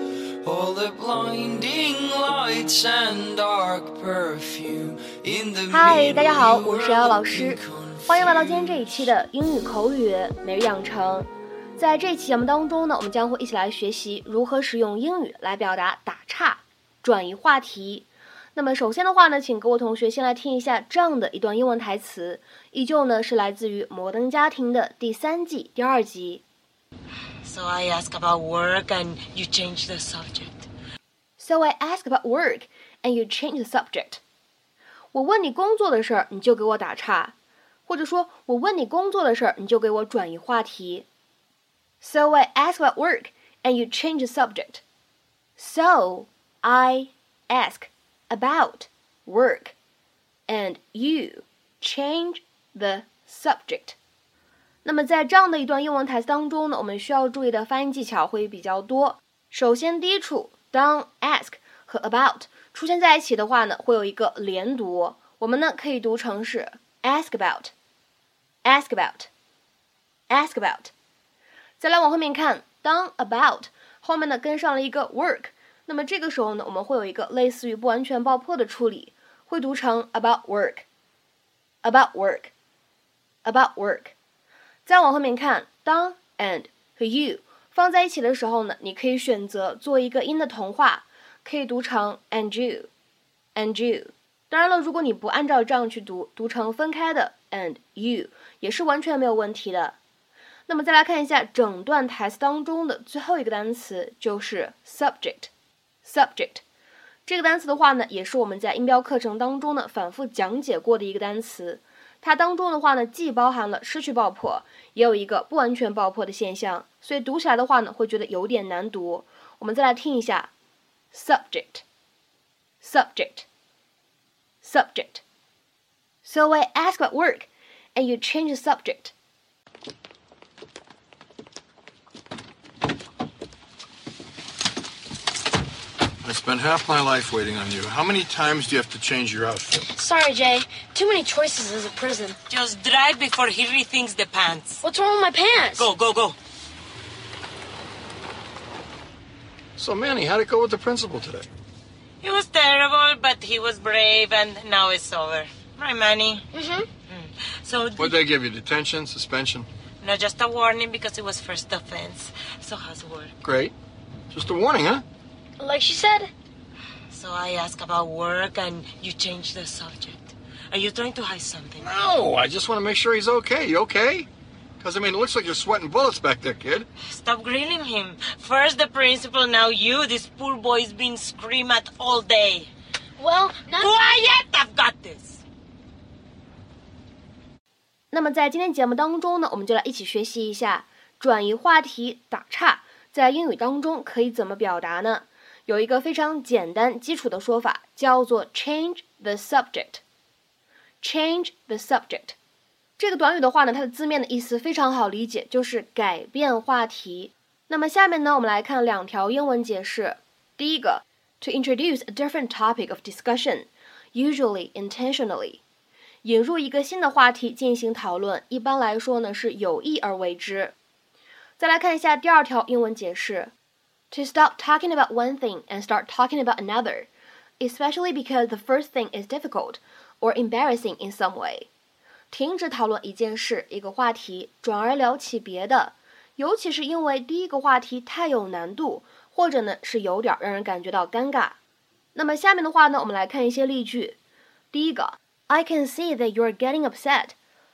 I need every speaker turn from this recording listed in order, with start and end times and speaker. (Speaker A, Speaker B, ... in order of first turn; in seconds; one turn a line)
Speaker A: 0.4-8.9
Speaker B: 5.7-26.4
Speaker C: 27.4-30.7
Speaker B: 31.4-34.2
Speaker B: 35.1-37.3
Speaker B: 37.9-41.1
Speaker B: 42.0-44.8
Speaker B: 45.6-49.8
Speaker B: 50.5-54.0
Speaker B: 54.8-67.7
Speaker B: 68.6-69.3
Speaker B: 70.3-70.9
Speaker B: 71.8-80.9
Speaker B: 81.8-82.5
Speaker B: 83.5-84.1
Speaker B: 84.8-92.9
Speaker B: 93.5-100.0
Speaker B: 100.7-105.5
Speaker B: 106.0-106.6
Speaker B: 107.3-120.5
Speaker B: 121.1-121.8
Speaker B: 122.8-123.5
Speaker B: 124.6-125.2
Speaker B: 126.2-129.1
Speaker D: 136.2-139.8
Speaker E: 139.9-142.4
Speaker C: 142.5-144.8
Speaker E: 144.8-145.8
Speaker C: 145.7-146.3
Speaker D: 149.8-151.5
Speaker C: 152.2-156.5
Speaker E: 156.5-156.9
Speaker C: 157.1-158.2
Speaker D: 158.0-159.7
Speaker C: 160.0-163.3
Speaker D: 163.4-163.7
Speaker D: 164.3-165.0
Speaker E: 165.6-166.3
Speaker C: 167.1-171.9
Speaker D: 171.8-174.3
Speaker D: 174.8-176.9
Speaker C: 177.1-182.7
Speaker E: 183.2-183.8
Speaker C: 183.7-185.4
Speaker B: 188.1-200.0
Speaker B: 201.0-202.3
Speaker B: 203.0-215.6
Speaker B: 216.2-220.7
Speaker B: 221.6-223.5
Speaker B: 224.1-227.1
Speaker B: 227.6-231.7
Speaker B: 232.3-241.6
Speaker B: 242.1-244.2
Speaker B: 244.7-247.3